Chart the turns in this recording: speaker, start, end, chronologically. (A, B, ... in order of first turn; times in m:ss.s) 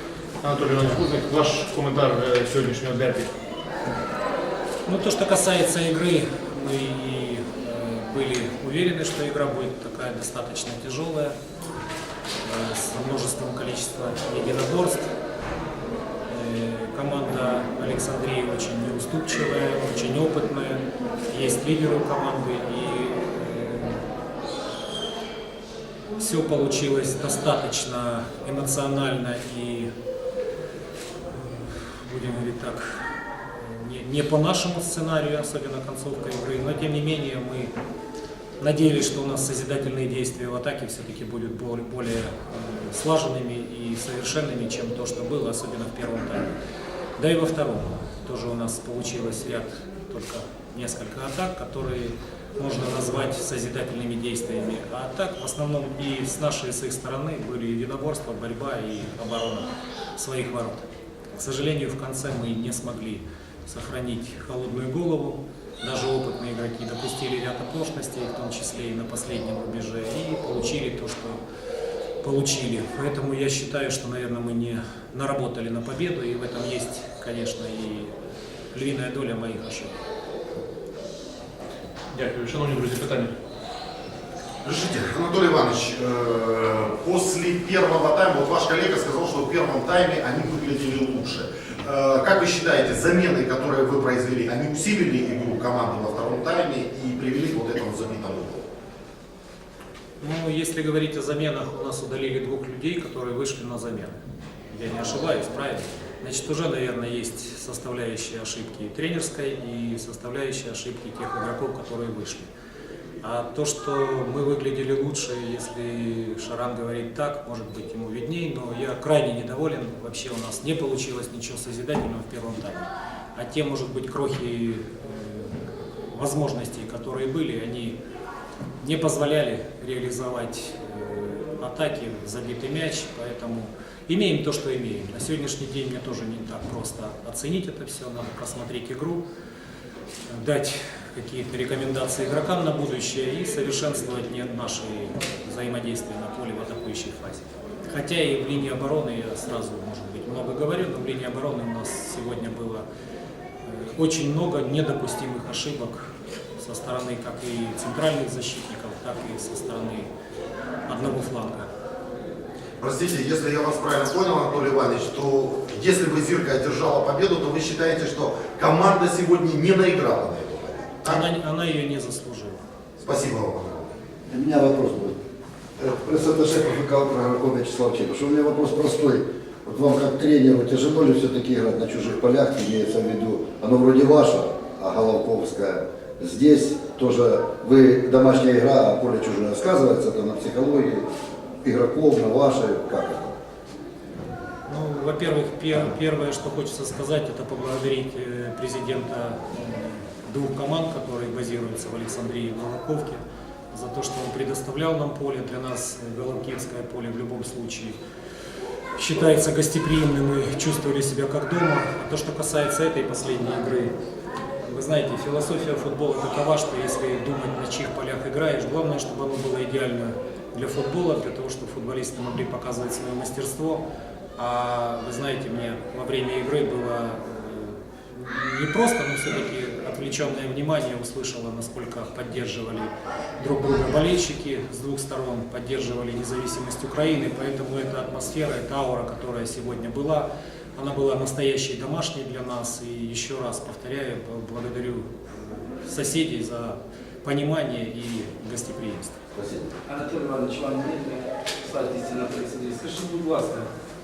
0:00.4-0:03.3 A
0:04.9-0:11.3 B
0:12.5-0:15.0 B
0:16.3-0:20.8 B
0:21.3-0:24.0 B
0:26.2-0:29.9 B
0:32.1-0:32.8 B
0:33.8-0:37.7 B
0:38.6-0:46.5 B
0:47.2-1:00.8 B
1:01.4-1:11.4 B
1:12.3-1:14.7 B
1:15.3-1:18.1 B
1:18.8-1:19.9 B
1:22.1-1:23.3 A
1:24.6-1:38.6 C
1:40.4-1:44.1 B
1:44.7-1:52.5 B
1:53.2-2:05.5 B
2:06.1-2:08.0 B
2:08.8-2:19.2 B
2:20.4-2:32.8 B
2:33.9-2:36.0 B
2:36.6-2:40.1 B
2:40.9-2:41.7 B
2:42.8-2:51.2 C
2:51.1-2:52.5 B
2:53.0-2:53.9 C
2:54.3-2:55.2 D
2:55.8-3:11.0 D
3:11.6-3:13.4 D
3:14.8-3:23.2 B
3:23.7-3:28.0 B
3:29.0-3:33.9 B
3:34.6-3:43.8 B
3:44.4-3:47.7 B
3:48.4-4:00.2 B
4:00.9-4:05.0 B
4:05.8-4:09.1 B
4:09.4-4:09.7 D
4:09.9-4:13.7 E